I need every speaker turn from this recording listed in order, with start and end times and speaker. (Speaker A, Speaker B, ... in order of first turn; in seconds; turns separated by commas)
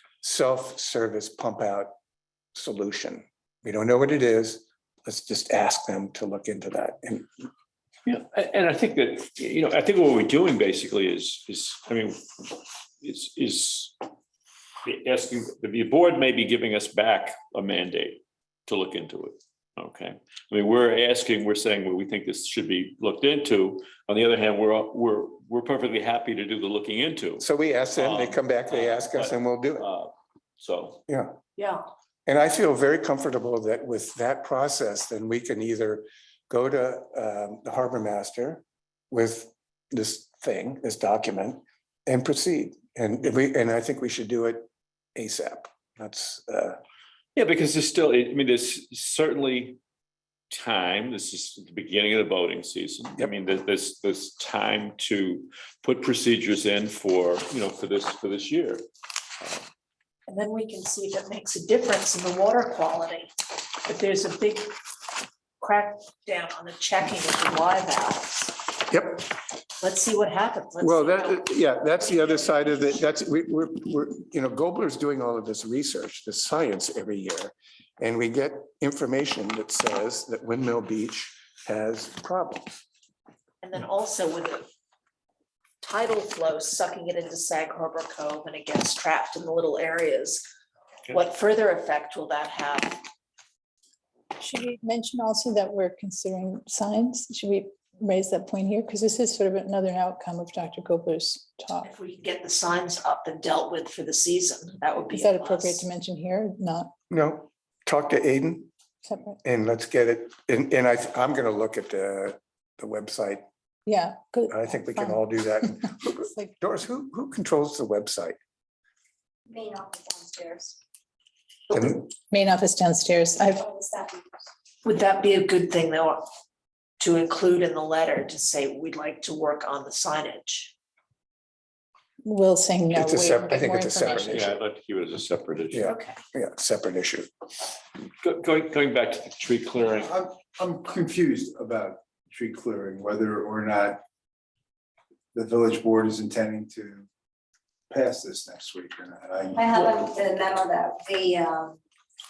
Speaker A: 0.2-1.9, Speaker A: 2.5-7.5, Speaker B: 8.1-14.0, Speaker B: 14.8-31.0, Speaker A: 27.4-29.9, Speaker A: 31.1-31.4, Speaker C: 31.6-31.9, Speaker A: 32.3-46.8, Speaker B: 47.4-49.8, Speaker B: 50.5-58.8, Speaker C: 60.3-64.8, Speaker C: 65.6-68.7, Speaker A: 68.9-69.3, Speaker C: 69.8-72.7, Speaker A: 70.8-82.8, Speaker C: 83.6-84.7, Speaker C: 85.8-90.5, Speaker C: 91.1-93.1, Speaker D: 94.4-101.9, Speaker C: 101.8-105.8, Speaker D: 105.1-106.9, Speaker A: 107.1-108.7, Speaker D: 109.0-109.4, Speaker A: 109.4-113.5, Speaker D: 113.9-116.5, Speaker A: 114.5-118.4, Speaker E: 119.5-120.8, Speaker D: 122.3-123.6, Speaker E: 123.5-124.4, Speaker C: 124.8-126.3, Speaker C: 127.0-130.7, Speaker D: 132.2-134.6, Speaker A: 132.9-134.6, Speaker B: 134.3-135.9, Speaker A: 135.7-137.3, Speaker C: 135.8-136.2, Speaker B: 138.2-140.1, Speaker F: 139.8-144.0, Speaker F: 145.3-147.1, Speaker F: 147.9-149.6, Speaker E: 149.5-151.8